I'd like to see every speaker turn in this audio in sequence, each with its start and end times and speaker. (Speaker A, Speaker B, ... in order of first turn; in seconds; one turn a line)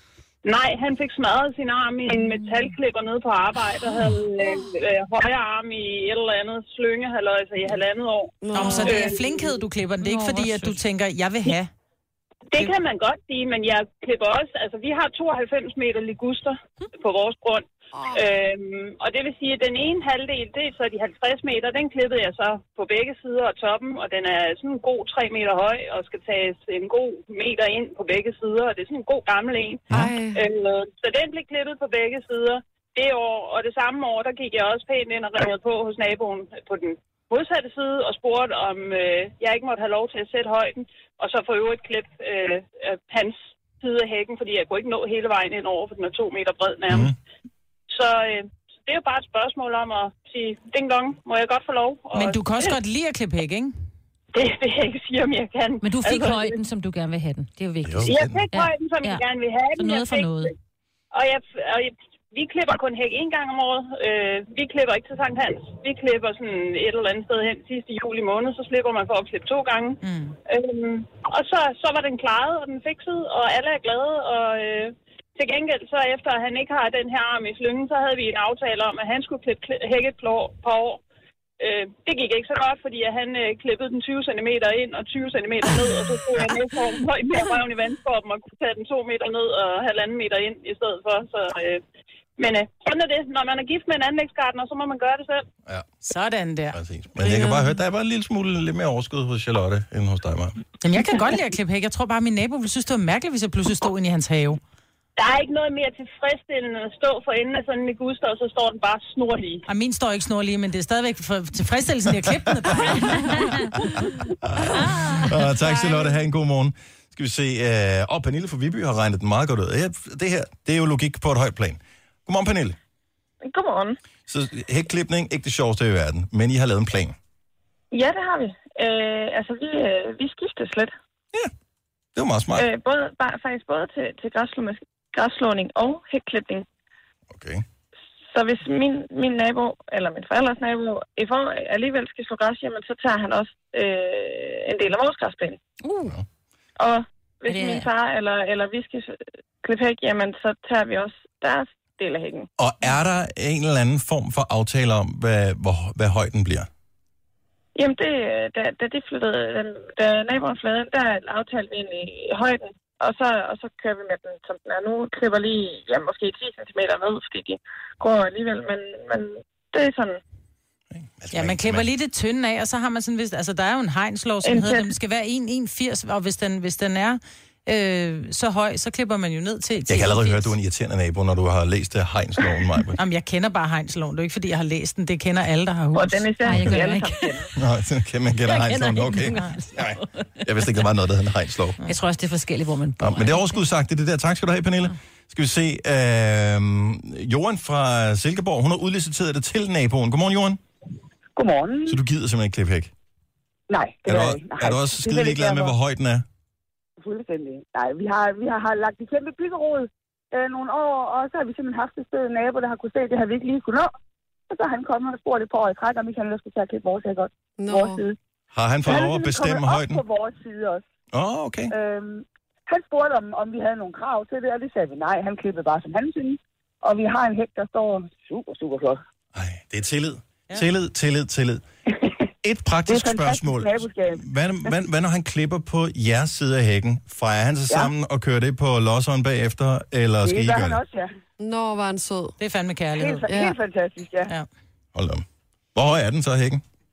Speaker A: 0.4-9.4
Speaker B: 8.4-9.1
Speaker C: 8.5-11.7
Speaker D: 8.6-9.1
Speaker D: 10.0-10.8
Speaker A: 12.5-47.1
Speaker B: 29.9-30.4
Speaker A: 47.9-52.8
Speaker C: 52.1-53.7
Speaker A: 54.3-56.6
Speaker D: 55.8-59.2
Speaker E: 57.8-58.4
Speaker A: 58.1-60.5
Speaker D: 59.8-60.5
Speaker A: 61.1-81.0
Speaker C: 70.0-70.4
Speaker A: 81.6-91.8
Speaker A: 92.4-95.4
Speaker C: 96.0-96.8
Speaker E: 96.7-100.6
Speaker C: 100.8-104.6
Speaker A: 105.2-109.6
Speaker C: 109.7-113.6
Speaker E: 112.3-113.0
Speaker E: 113.7-122.8
Speaker F: 123.4-124.0
Speaker E: 124.3-127.2
Speaker F: 127.9-130.9
Speaker E: 132.1-132.7
Speaker F: 132.5-136.7
Speaker E: 137.3-137.6
Speaker F: 138.3-145.6
Speaker D: 145.8-146.1
Speaker F: 146.8-152.5
Speaker D: 147.5-147.9
Speaker E: 152.6-156.7
Speaker F: 157.7-170.2
Speaker E: 170.9-171.9
Speaker C: 171.3-180.5
Speaker F: 174.4-174.9
Speaker E: 179.9-183.0
Speaker C: 183.0-186.9
Speaker F: 185.9-187.5
Speaker D: 186.4-187.3
Speaker E: 187.6-191.8
Speaker D: 188.4-190.3
Speaker D: 191.8-193.6
Speaker E: 193.0-200.6
Speaker G: 201.3-202.0
Speaker E: 201.8-202.9
Speaker G: 203.7-205.7
Speaker E: 204.1-206.2
Speaker G: 207.0-213.9
Speaker G: 214.5-218.2
Speaker B: 217.6-218.0
Speaker E: 218.5-220.0
Speaker G: 218.8-220.8
Speaker E: 221.1-221.7
Speaker G: 221.7-229.0
Speaker E: 229.3-231.6
Speaker E: 232.4-240.8
Speaker G: 232.9-234.7
Speaker G: 240.2-241.1
Speaker B: 241.4-242.3
Speaker C: 242.4-243.3
Speaker G: 242.9-244.3
Speaker B: 243.3-243.6
Speaker E: 244.9-246.6